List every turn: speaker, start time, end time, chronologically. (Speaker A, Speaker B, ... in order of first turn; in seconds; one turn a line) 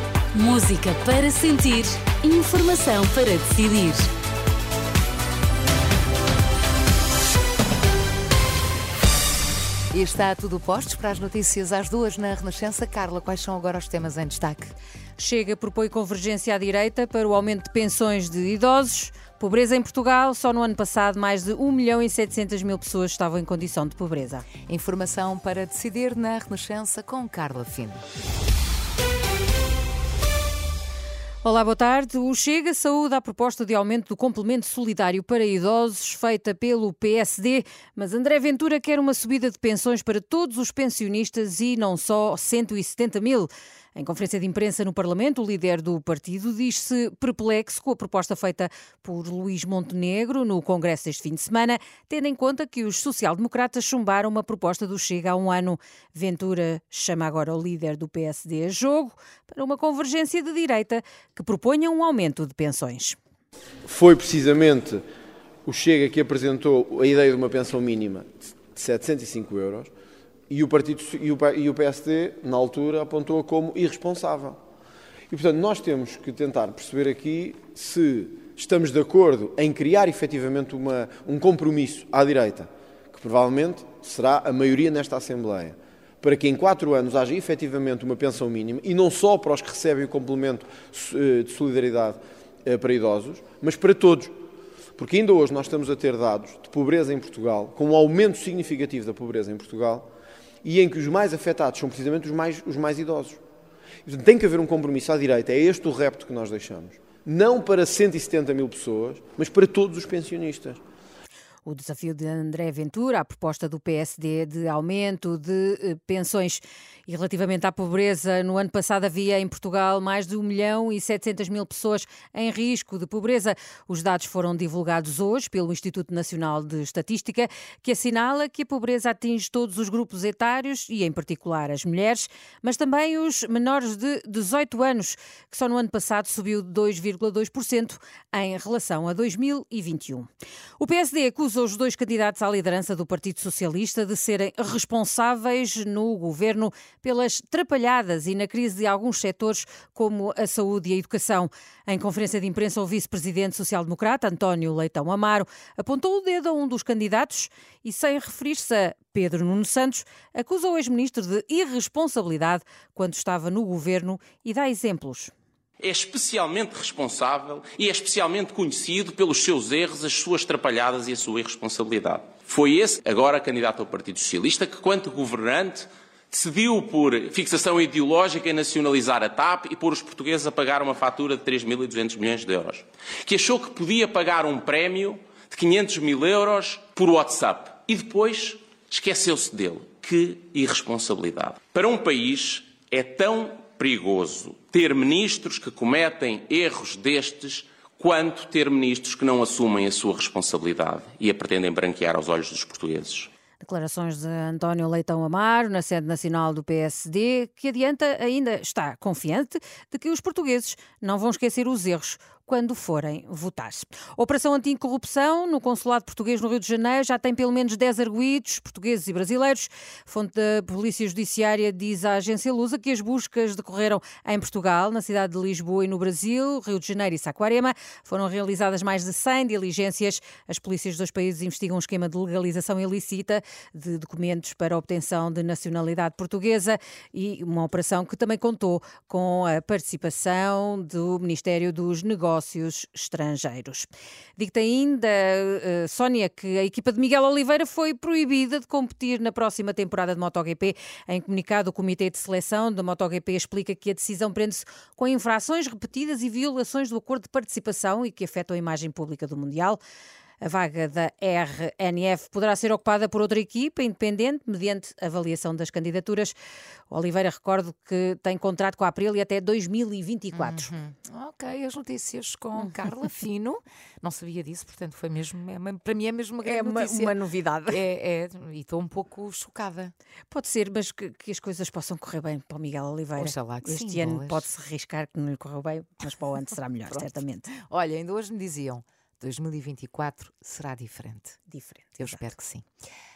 Speaker A: 0.3-4.1
Speaker B: 9.9-14.7
Speaker C: 15.2-24.5
Speaker B: 24.7-28.0
Speaker C: 31.4-63.2
Speaker D: 63.9-65.0
Speaker D: 65.7-69.9
Speaker D: 70.5-74.6
Speaker D: 75.3-94.3
Speaker D: 95.0-100.1
Speaker D: 100.6-103.4
Speaker D: 104.0-110.8
Speaker C: 111.6-165.3
Speaker E: 165.8-203.3
Speaker C: 203.6-259.8
Speaker C: 260.4-266.3
Speaker C: 266.9-270.7
Speaker B: 270.3-277.1
Speaker C: 276.4-277.8
Speaker B: 277.7-279.9
Speaker C: 280.3-287.5
Speaker B: 283.2-284.4
Speaker B: 287.6-291.4
Speaker C: 291.5-292.2
Speaker B: 292.0-292.7